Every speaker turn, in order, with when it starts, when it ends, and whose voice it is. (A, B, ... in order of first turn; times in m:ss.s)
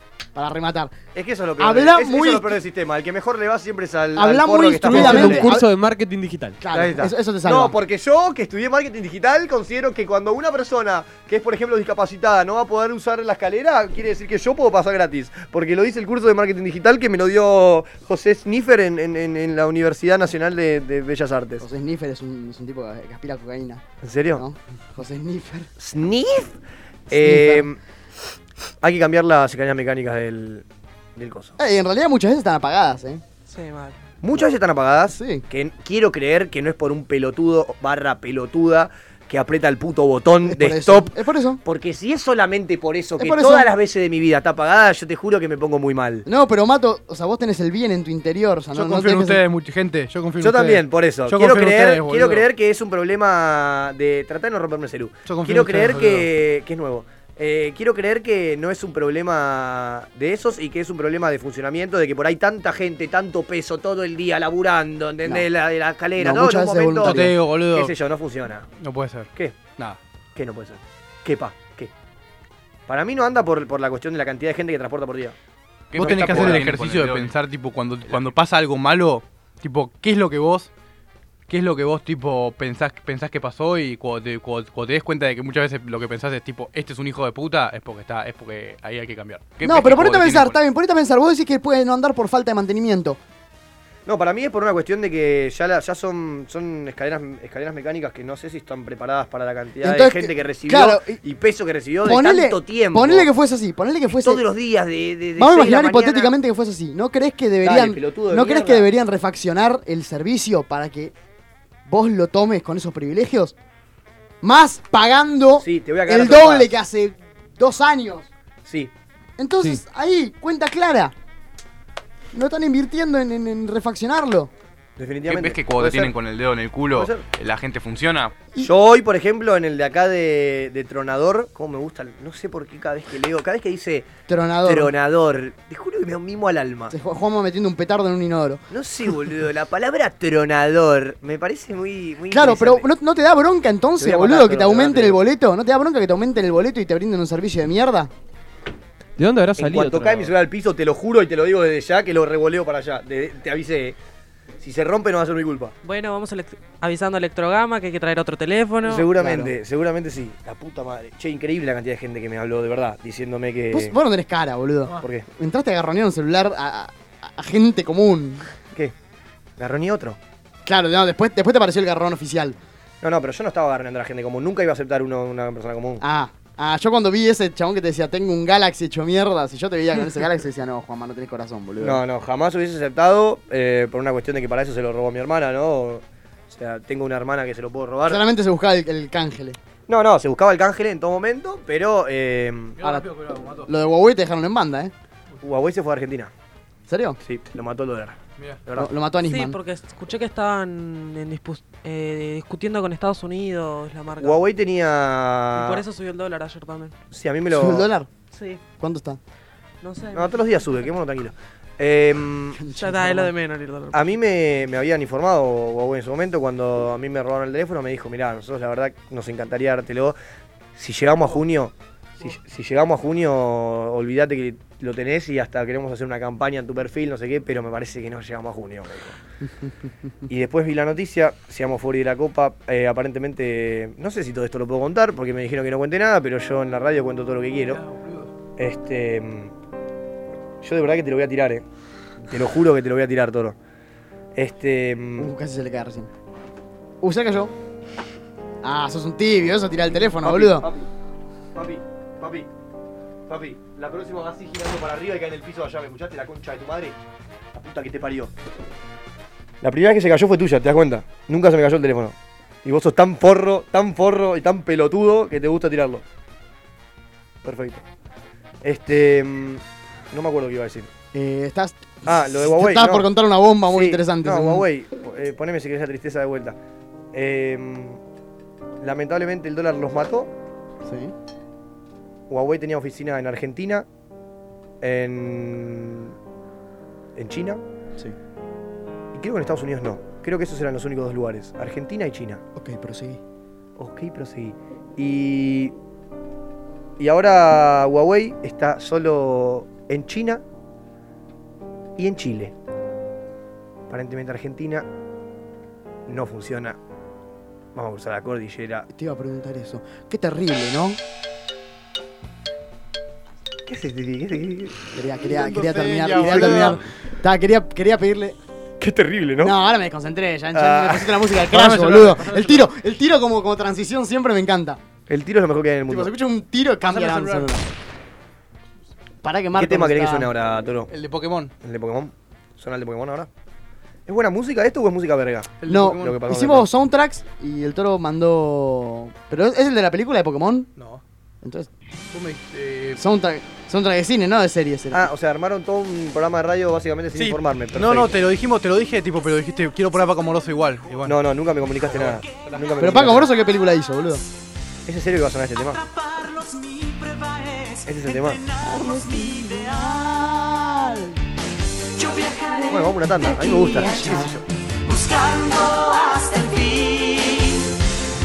0:00.3-0:00.9 A
0:01.1-0:05.5 B
0:01.6-0:02.6 A
0:04.2-0:05.7 A
0:04.8-0:06.6 C
0:06.6-0:07.7 A
0:06.7-0:21.6 B
0:21.6-0:23.8 A
0:24.0-0:24.4 B
0:24.3-0:25.7 A
0:25.8-0:26.6 B
0:27.1-0:27.8 B
0:27.1-0:27.7 A
0:28.8-0:30.6 B
0:31.2-0:31.6 B
0:31.6-0:33.2 A
0:33.5-0:34.0 D
0:34.2-0:41.1 B
0:35.1-0:35.4 A
0:40.4-0:41.6 A
0:41.6-0:46.3 B
0:43.2-0:43.7 A
0:46.3-0:49.4 A
0:48.7-0:52.4 E
0:50.4-1:08.7 B
0:55.3-0:56.3 E
1:06.2-1:07.3 A
1:07.0-1:08.0 E
1:08.8-1:10.0 E
1:10.3-1:11.9 B
1:12.9-1:15.4 B
1:15.9-1:20.7 E
1:16.0-1:17.3 B
1:21.5-1:30.6 E
1:29.6-1:33.2 A
1:34.0-1:43.3 B
1:39.8-1:41.2 A
1:42.0-1:44.4 A
1:44.1-1:46.3 B
1:45.4-1:51.1 A
1:47.6-1:48.9 B
1:51.9-1:53.5 A
1:54.4-1:58.3 A
1:55.6-1:56.7 B
1:58.6-1:58.9 B
1:59.4-2:01.1 A
2:02.3-2:04.5 A
2:05.0-2:06.1 B
2:05.3-2:08.3 E
2:06.9-2:07.2 B
2:08.6-2:14.1 B
2:14.3-2:14.9 A
2:14.6-2:16.9 B
2:16.9-2:18.6 A
2:18.7-2:22.9 B
2:22.3-2:28.1 A
2:24.0-2:25.2 B
2:29.2-2:30.3 C
2:29.6-2:34.0 B
2:34.6-2:35.7 B
2:35.8-2:39.1 D
2:38.8-2:44.0 B
2:39.1-2:39.5 A
2:43.7-2:48.5 A
2:45.0-2:45.3 B
2:49.6-2:50.2 B
2:50.6-2:52.6 A
2:53.0-2:56.0 B
2:56.0-3:02.0 A
3:01.8-3:08.2 B
3:08.0-3:09.6 A
3:09.9-3:12.8 B
3:12.8-3:13.7 E
3:12.8-3:13.1 A
3:13.6-3:14.9 A
3:15.4-3:16.3 B
3:16.9-3:17.2 A
3:17.2-3:18.9 B
3:18.8-3:19.6 A
3:19.3-3:24.4 D
3:24.2-3:25.8 B
3:25.6-3:27.0 D
3:27.1-3:27.9 B
3:27.5-3:28.1 A
3:28.3-3:28.6 D
3:28.7-3:29.2 A
3:29.8-3:30.9 D
3:30.1-3:32.6 B
3:32.6-3:33.3 A
3:32.7-3:34.0 D
3:33.9-3:40.2 B
3:40.8-3:49.2 B
3:50.3-3:57.8 B
3:57.7-3:58.3 E
3:58.6-3:59.5 B
4:00.6-4:01.6 B
4:02.2-4:03.6 B
4:04.4-4:05.3 B
4:05.2-4:06.1 A
4:07.0-4:07.5 A
4:08.6-4:10.6 A
4:10.2-4:10.9 B
4:11.6-4:12.5 B
4:13.3-4:17.0 B
4:17.5-4:18.3 B
4:19.6-4:26.0 B
4:27.4-4:27.8 B
4:28.6-4:30.9 B
4:31.1-4:34.6 A
4:32.0-4:33.1 B
4:33.7-4:36.6 B
4:37.1-4:38.0 B
4:38.8-4:40.3 B
4:40.8-4:41.1 A
4:42.3-4:43.9 B
4:44.8-4:46.1 B
4:47.2-4:47.6 B
4:49.1-4:52.4 B
4:52.6-4:53.2 A
4:53.8-4:55.7 B
4:57.0-5:00.4 B
5:02.0-5:02.5 B
5:03.9-5:04.9 B
5:06.1-5:06.8 B
5:07.7-5:08.9 B
5:08.9-5:11.0 A
5:13.7-5:14.8 B
5:14.9-5:18.4 A
5:15.2-5:16.8 E
5:16.1-5:16.8 B
5:18.8-5:19.5 B
5:19.4-5:24.8 A
5:20.5-5:21.4 B
5:21.5-5:22.7 E
5:25.1-5:26.1 B
5:25.9-5:27.6 A
5:26.8-5:27.6 E
5:29.2-5:30.3 A
5:29.5-5:30.9 B
5:30.9-5:31.5 E
5:31.6-5:33.3 B
5:34.1-5:36.7 B
5:35.6-5:36.2 E
5:35.6-5:40.7 A
5:41.4-5:41.7 A
5:42.1-5:43.0 E
5:43.0-5:45.1 A
5:44.9-5:48.2 B
5:47.1-5:51.2 E
5:51.0-5:53.3 B
5:52.1-5:53.2 E
5:52.8-5:54.2 A
5:54.9-5:55.8 B
5:55.7-6:00.3 F
5:57.9-5:58.4 B
6:02.0-6:04.3 F
6:02.7-6:04.4 B
6:04.8-6:07.7 F